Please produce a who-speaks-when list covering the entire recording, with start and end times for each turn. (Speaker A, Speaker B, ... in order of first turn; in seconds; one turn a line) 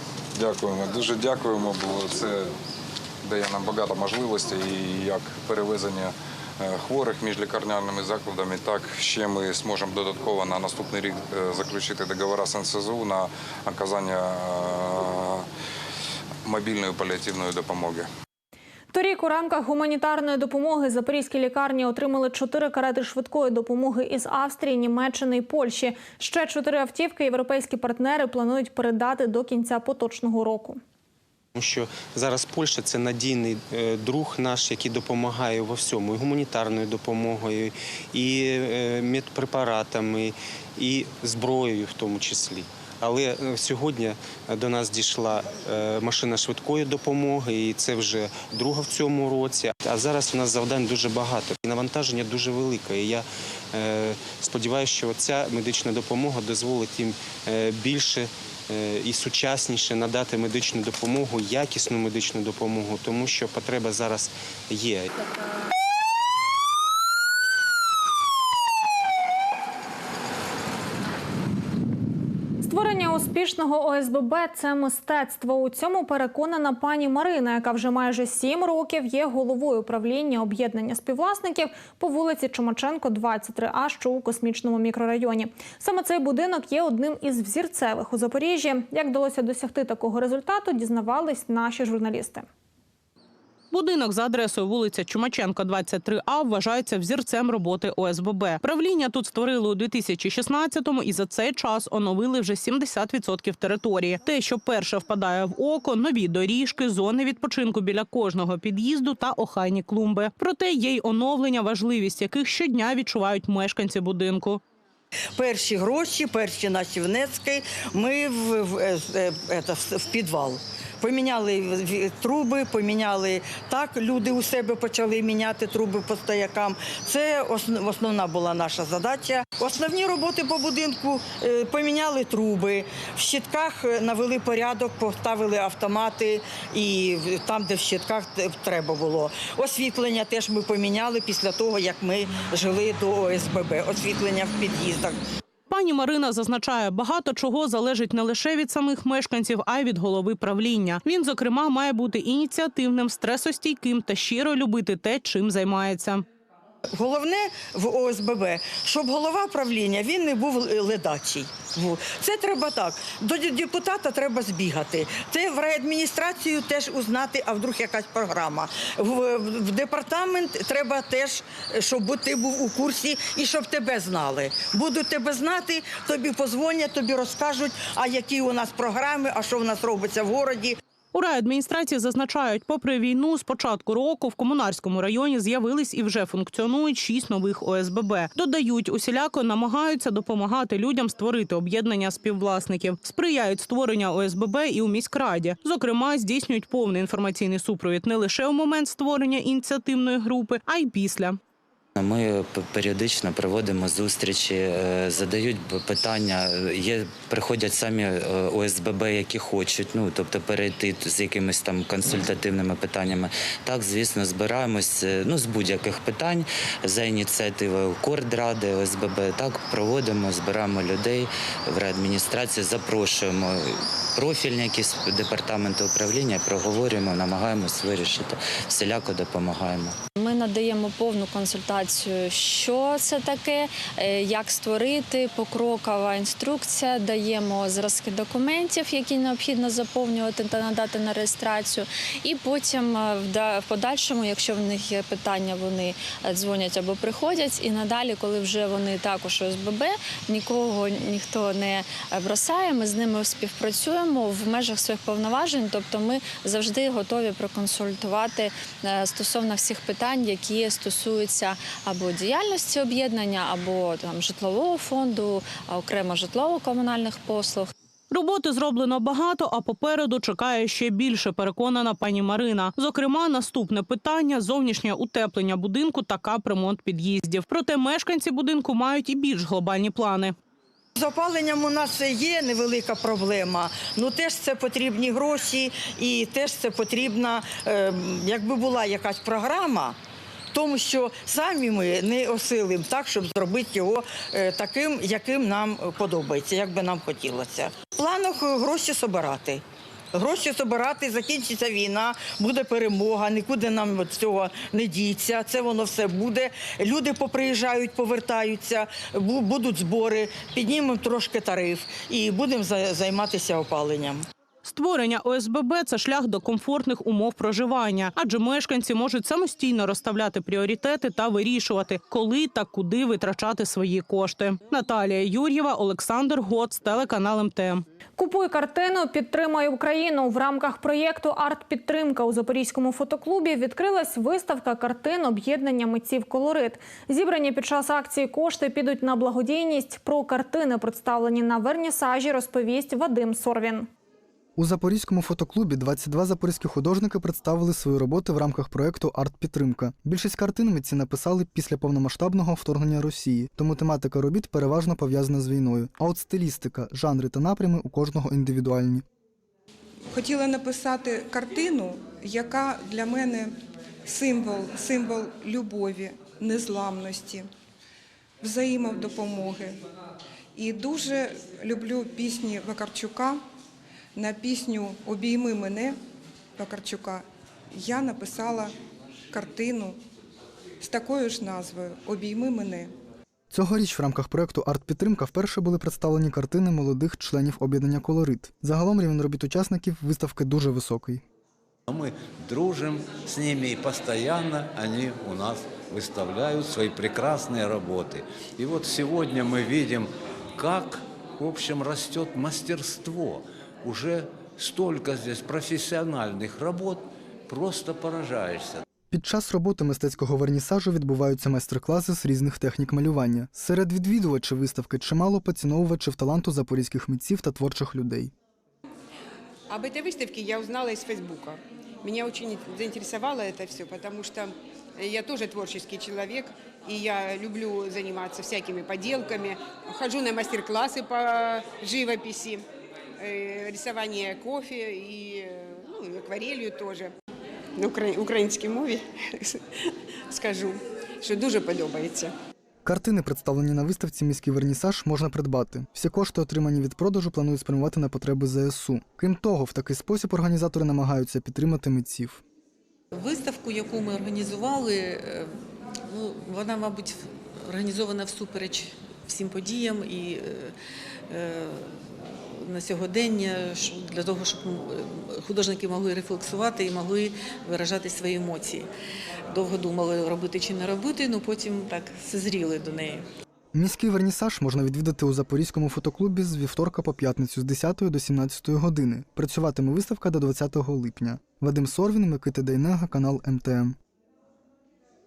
Speaker A: 0.3-2.5
Speaker A: 3.2-15.4
Speaker A: 16.4-18.1
Speaker B: 18.9-30.8
Speaker C: 31.6-65.1
Speaker B: 72.6-92.5
Speaker D: 93.7-114.6
Speaker E: 115.3-145.2
Speaker D: 145.7-156.2
Speaker E: 156.9-180.8
Speaker D: 181.1-201.4
Speaker F: 201.9-230.0
Speaker G: 230.2-267.7
Speaker D: 268.1-280.4
Speaker E: 280.9-289.9
Speaker E: 290.5-299.6
Speaker E: 300.1-314.2
Speaker D: 314.6-327.8
Speaker B: 328.2-343.9
Speaker H: 344.6-359.0
Speaker I: 360.1-363.5
Speaker I: 364.0-367.5
Speaker I: 368.4-369.8
Speaker I: 370.5-373.4
Speaker I: 374.1-376.0
Speaker I: 376.6-378.7
Speaker I: 379.3-380.0
Speaker I: 380.8-382.9
Speaker H: 383.5-391.2
Speaker J: 391.9-408.8
Speaker H: 409.1-418.3
Speaker K: 419.7-432.6
Speaker K: 433.2-437.1
Speaker K: 437.8-439.5
Speaker K: 440.3-442.3
Speaker H: 442.8-452.4
Speaker L: 453.1-455.5
Speaker L: 456.1-460.7
Speaker L: 461.3-468.9
Speaker L: 469.5-473.2
Speaker H: 473.7-484.0